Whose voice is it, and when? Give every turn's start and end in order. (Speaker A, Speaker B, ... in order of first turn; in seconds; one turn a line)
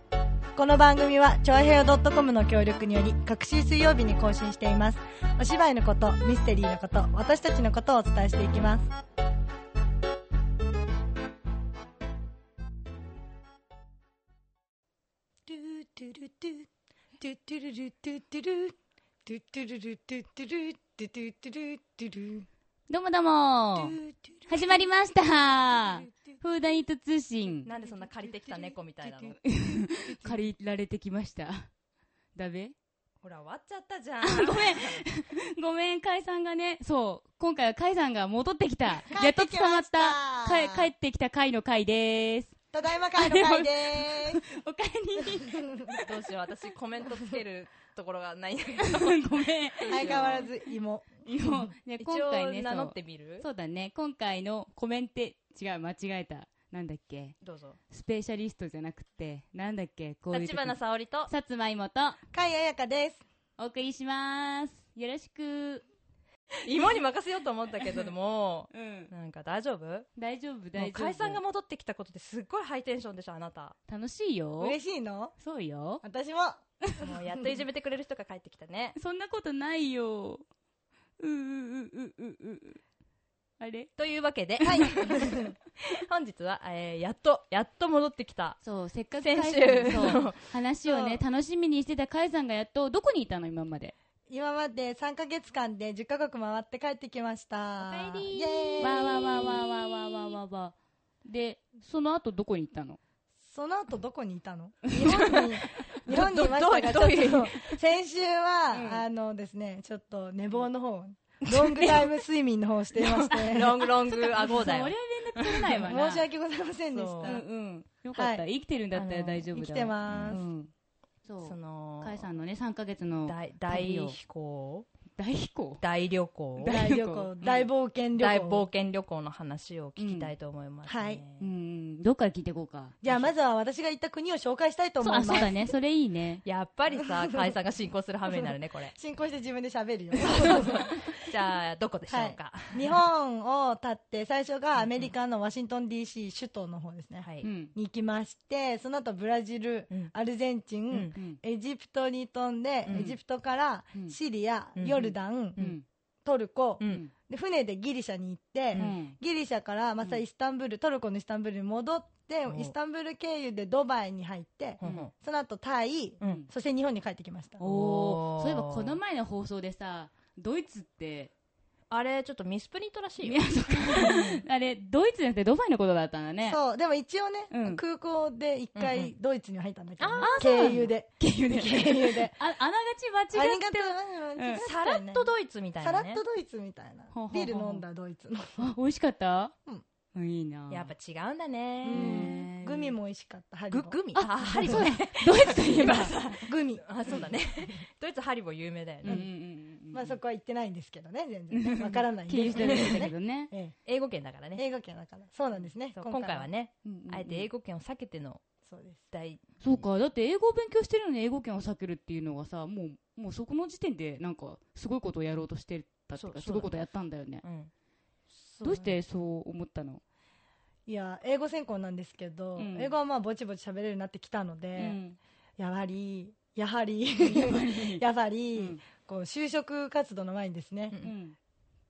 Speaker A: 0.6-8.9
Speaker A: 15.5-16.7
Speaker A: 17.2-18.8
Speaker A: 19.3-22.5
Speaker B: 22.9-27.7
Speaker A: 23.8-24.8
Speaker C: 27.6-29.4
Speaker B: 29.4-31.7
Speaker B: 32.4-32.7
Speaker C: 33.2-35.0
Speaker B: 34.2-46.0
Speaker A: 39.1-40.9
Speaker A: 42.7-44.4
Speaker A: 45.5-45.9
Speaker C: 46.0-50.5
Speaker B: 48.8-50.5
Speaker A: 49.9-51.7
Speaker B: 51.2-57.4
Speaker C: 52.0-53.5
Speaker C: 57.4-57.8
Speaker B: 57.9-62.2
Speaker C: 60.3-61.3
Speaker A: 62.3-63.2
Speaker B: 63.6-65.8
Speaker C: 66.6-70.1
Speaker B: 68.7-69.1
Speaker B: 70.2-71.4
Speaker C: 70.8-73.8
Speaker B: 73.9-74.8
Speaker A: 74.6-75.3
Speaker B: 75.4-76.0
Speaker A: 76.0-77.5
Speaker C: 77.0-79.0
Speaker B: 79.0-80.5
Speaker B: 81.2-82.8
Speaker B: 83.6-83.9
Speaker C: 84.0-88.6
Speaker B: 84.6-85.1
Speaker A: 84.6-85.5
Speaker B: 88.6-93.9
Speaker C: 89.2-90.5
Speaker A: 90.8-91.2
Speaker A: 94.3-99.5
Speaker C: 97.8-100.4
Speaker B: 98.8-103.0
Speaker A: 103.5-113.9
Speaker C: 106.0-107.8
Speaker B: 108.7-109.0
Speaker B: 111.5-112.1
Speaker C: 113.0-115.9
Speaker B: 113.3-116.2
Speaker A: 115.8-117.5
Speaker C: 116.9-117.4
Speaker B: 117.2-120.7
Speaker A: 118.1-118.4
Speaker C: 118.9-119.5
Speaker A: 119.5-120.5
Speaker C: 120.1-120.4
Speaker B: 121.3-124.2
Speaker C: 121.4-122.3
Speaker C: 123.2-124.9
Speaker B: 125.2-125.8
Speaker C: 125.8-126.8
Speaker B: 126.6-127.7
Speaker A: 126.7-128.7
Speaker C: 128.2-131.5
Speaker B: 130.0-130.3
Speaker A: 130.9-131.2
Speaker B: 131.4-133.0
Speaker A: 133.0-135.6
Speaker B: 135.0-136.4
Speaker C: 136.4-138.9
Speaker A: 137.0-137.4
Speaker A: 138.3-140.9
Speaker C: 140.3-143.0
Speaker A: 142.1-155.7
Speaker C: 147.2-147.5
Speaker B: 147.4-147.7
Speaker C: 152.8-153.1
Speaker C: 154.8-155.8
Speaker B: 155.6-155.8
Speaker A: 156.2-167.6
Speaker B: 156.9-157.1
Speaker B: 158.8-159.2
Speaker C: 162.5-162.8
Speaker C: 164.8-165.1
Speaker B: 164.8-165.1
Speaker C: 166.2-166.5
Speaker B: 167.6-171.3
Speaker C: 167.6-169.0
Speaker C: 171.9-174.4
Speaker B: 173.2-176.6
Speaker A: 176.4-182.4
Speaker B: 177.5-177.8
Speaker C: 178.8-179.1
Speaker C: 180.0-180.9
Speaker B: 180.2-184.7
Speaker A: 183.3-185.3
Speaker C: 184.6-186.2
Speaker A: 185.8-188.7
Speaker B: 187.1-187.8
Speaker B: 188.6-189.6
Speaker B: 190.1-190.9
Speaker C: 190.7-192.4
Speaker A: 191.8-194.9
Speaker B: 191.9-192.9
Speaker C: 193.7-199.3
Speaker B: 194.2-196.4
Speaker A: 196.5-197.2
Speaker B: 199.0-200.2
Speaker A: 199.1-199.3
Speaker A: 199.9-203.8
Speaker B: 201.5-203.5
Speaker C: 202.7-203.1
Speaker C: 203.8-204.6
Speaker A: 204.6-206.5
Speaker C: 205.9-208.4
Speaker B: 206.9-207.5
Speaker A: 208.7-209.0
Speaker C: 209.1-209.9
Speaker B: 209.6-217.4
Speaker C: 216.2-216.8
Speaker C: 217.4-217.7
Speaker A: 218.6-218.9
Speaker B: 218.6-220.0
Speaker A: 220.9-225.0
Speaker B: 222.6-222.9
Speaker B: 224.8-225.2
Speaker A: 225.6-231.0
Speaker B: 227.2-228.0
Speaker B: 231.0-231.4